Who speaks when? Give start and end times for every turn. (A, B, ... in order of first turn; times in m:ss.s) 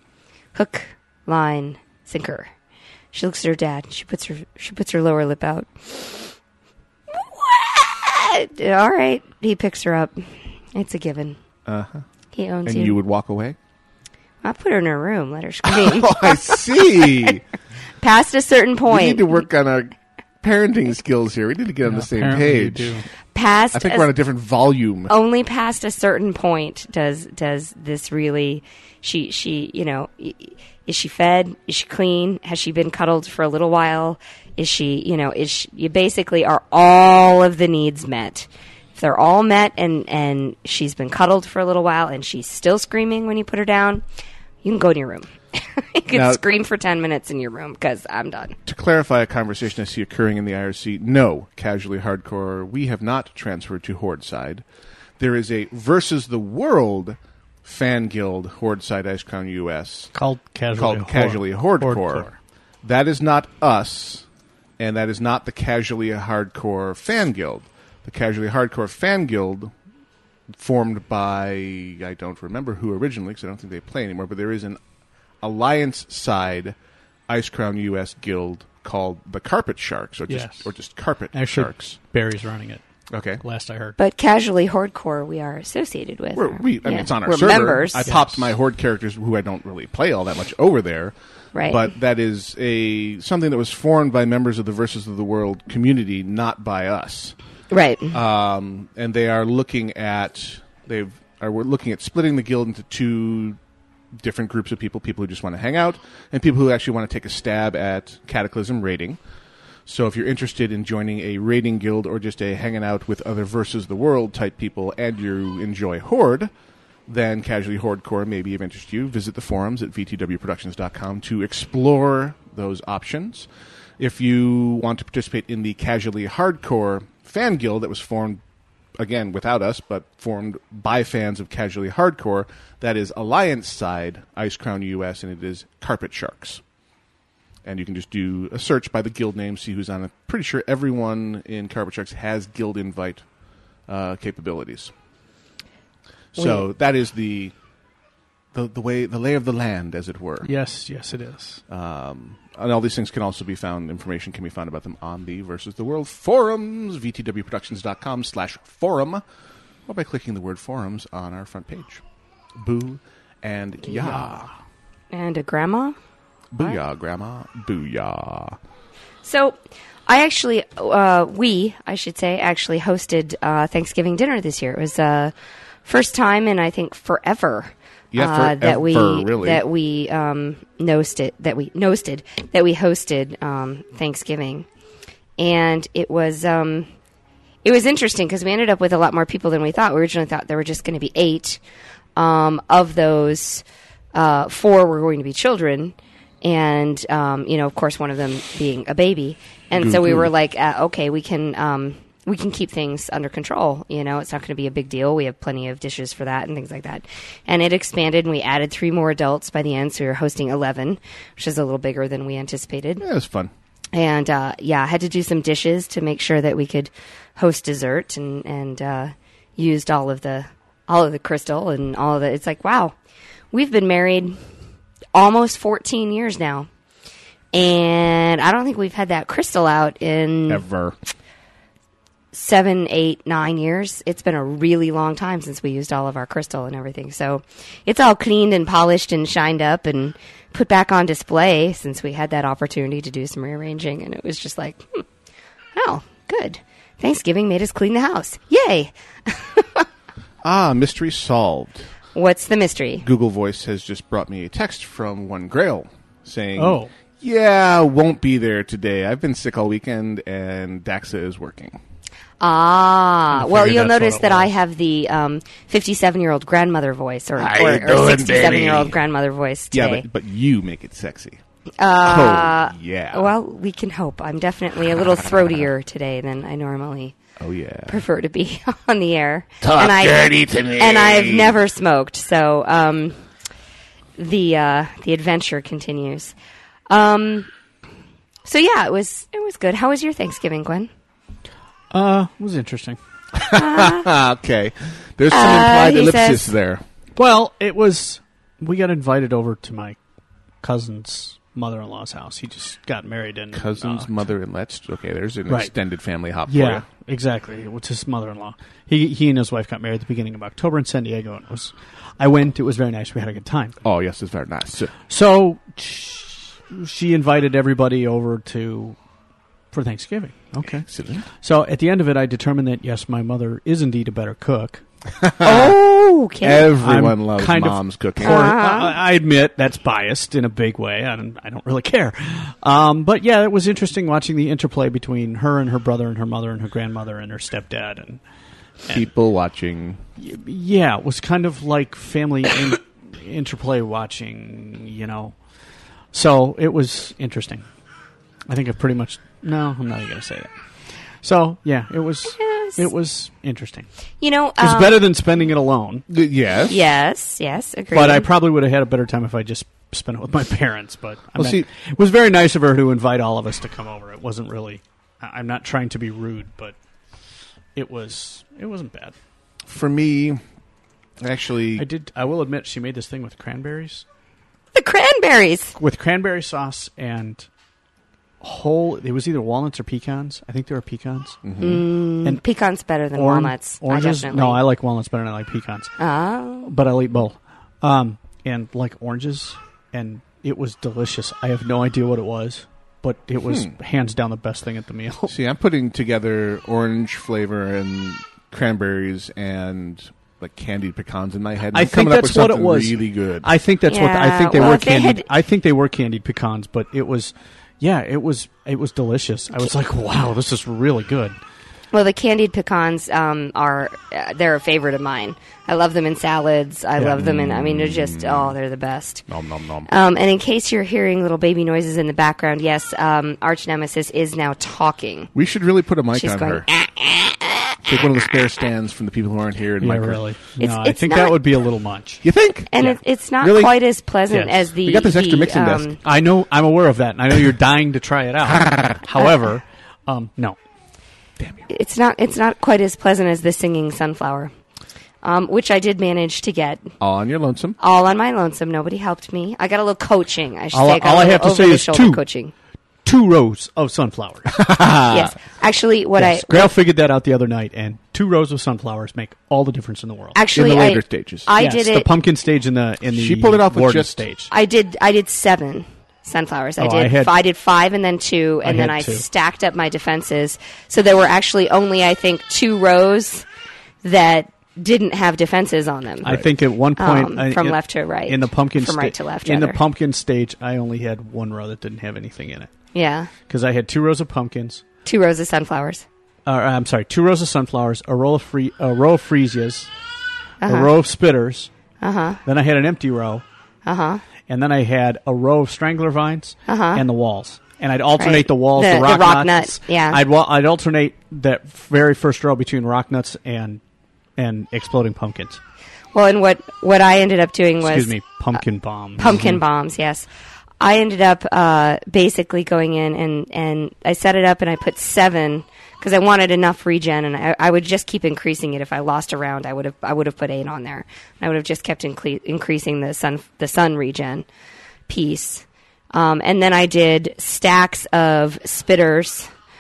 0:00.5-0:02.5 A
0:03.1-0:06.3 A
0:07.1-0:11.4 A
0:11.7-0:12.0 B
0:12.3-0:13.0 A
0:12.6-0:13.6 B
0:14.4-0:17.3 A
0:15.6-0:17.4 B
0:18.0-0:19.4 A
0:18.9-0:23.0 B
0:21.8-0:23.0 C
0:23.3-0:24.1 A
0:23.7-0:25.1 B
0:25.1-0:44.0 A
0:44.6-0:48.6 A
0:46.1-0:46.4 B
0:48.7-0:54.6 B
0:55.2-1:00.1 B
1:00.1-1:02.4 C
1:00.8-1:02.3 B
1:02.8-1:04.3 B
1:04.8-1:09.7 B
1:10.5-1:14.8 B
1:15.4-1:16.8 B
1:17.3-1:22.0 B
1:20.3-1:20.7 C
1:21.3-1:22.8 C
1:23.1-1:23.4 B
1:23.4-1:24.0 C
1:24.0-1:28.1 A
1:26.4-1:37.4 B
1:28.1-1:28.5 C
1:31.5-1:31.9 A
1:37.7-1:38.2 A
1:38.1-1:43.6 B
1:44.2-1:49.2 B
1:49.9-1:56.5 B
1:57.1-2:08.4 B
2:09.0-2:16.6 B
2:17.6-2:23.2 B
2:23.9-2:24.9 B
2:26.3-2:27.5 B
2:26.4-2:26.6 A
2:28.5-2:30.5 B
2:30.4-2:31.6 C
2:31.7-2:39.2 B
2:39.9-2:42.0 B
2:42.6-2:44.5 B
2:45.1-2:46.0 A
2:46.5-2:48.6 B
2:49.2-2:55.3 A
2:55.8-3:04.7 A
2:58.1-2:59.6 B
3:05.4-3:06.9 A
3:07.6-3:11.6 A
3:12.2-3:33.0 A
3:19.8-3:20.3 B
3:33.0-3:33.5 B
3:33.9-3:43.0 A
3:43.5-3:44.4 A
3:45.1-3:46.7 A
3:47.5-3:50.6 A
3:50.5-3:51.0 B
3:52.3-4:05.0 A
4:05.8-4:09.8 A
4:10.4-4:11.9 B
4:12.2-4:13.1 A
4:13.0-4:21.8 B
4:16.6-4:16.9 C
4:22.4-4:30.0 A
4:23.3-4:24.5 C
4:27.4-4:29.0 B
4:29.7-4:31.4 B
4:31.8-4:37.2 A
4:32.0-4:33.3 B
4:37.4-4:38.0 B
4:37.9-4:43.2 A
4:39.6-4:41.6 B
4:44.2-4:46.4 A
4:46.9-4:47.5 A
4:48.5-4:50.9 A
4:51.9-4:53.0 C
4:53.3-4:56.8 B
4:53.5-4:54.1 A
4:55.3-4:56.5 A
4:57.2-5:00.0 C
5:00.6-5:04.2 C
5:03.5-5:06.9 B
5:06.5-5:13.8 C
5:13.8-5:14.9 B
5:15.1-5:19.0 C
5:19.7-5:20.9 C
5:20.6-5:21.3 B
5:21.4-5:24.8 C
5:25.2-5:25.8 B
5:25.4-5:26.7 A
5:26.4-5:28.6 B
5:26.8-5:38.2 C
5:28.2-5:28.9 A
5:38.9-5:40.0 B
5:40.2-5:45.4 C
5:46.1-5:47.6 C
5:48.5-5:50.5 C
5:51.2-5:53.9 C
5:52.4-5:52.9 A
5:54.2-5:55.1 A
5:54.6-5:56.0 C
5:56.1-5:56.8 B
5:56.7-5:58.3 A
5:57.9-6:06.8 C
6:01.4-6:01.7 B
6:07.8-6:09.2 C
6:09.7-6:10.4 B
6:11.2-6:11.9 B
6:11.8-6:14.0 C
6:14.8-6:15.8 A
6:15.8-6:17.5 C
6:18.4-6:21.4 C
6:21.4-6:21.8 B
6:21.6-6:24.6 A
6:23.2-6:25.9 C
6:26.0-6:26.7 A
6:26.6-6:35.4 C
6:33.4-6:33.7 B
6:35.3-6:43.5 B
6:41.7-6:51.4 C
6:43.9-6:45.2 A
6:51.9-6:59.2 A
6:57.0-6:57.2 C
6:57.2-6:58.6 B
6:59.3-6:59.9 B
6:59.9-7:05.3 A
7:05.4-7:06.7 B
7:06.1-7:07.8 A
7:07.9-7:10.2 B
7:09.8-7:12.2 C
7:10.6-7:11.4 A
7:12.2-7:12.9 B
7:12.7-7:16.0 A
7:13.4-7:13.8 B
7:14.3-7:14.6 C
7:14.8-7:16.0 B
7:16.0-7:20.6 C
7:21.4-7:21.7 B
7:21.7-7:24.5 A
7:25.2-7:26.9 A
7:27.0-7:27.8 B
7:27.8-7:32.5 A
7:30.7-7:32.2 C
7:33.0-7:34.6 C
7:34.5-7:35.3 B
7:35.1-7:36.7 A
7:36.2-7:40.4 C
7:40.4-7:42.1 A
7:40.5-7:41.5 B
7:41.6-7:44.5 C
7:43.1-7:44.2 B
7:44.5-7:53.5 A
7:46.8-7:47.3 C
7:48.6-7:49.3 C
7:54.0-7:56.4 A
7:56.2-8:02.7 C
7:57.0-7:59.8 A
8:02.9-8:03.3 A
8:03.5-8:04.8 C
8:05.0-8:06.0 A
8:06.5-8:09.9 C
8:10.6-8:10.9 A
8:10.7-8:11.7 C
8:12.0-8:12.4 A
8:12.5-8:13.4 C
8:13.8-8:14.2 A
8:14.5-8:23.8 C
8:16.7-8:17.0 A
8:18.2-8:20.2 A
8:24.4-8:25.6 C
8:26.1-8:28.1 A
8:27.8-8:29.6 C
8:29.2-8:30.3 A
8:30.8-8:44.4 A
8:45.1-8:49.5 A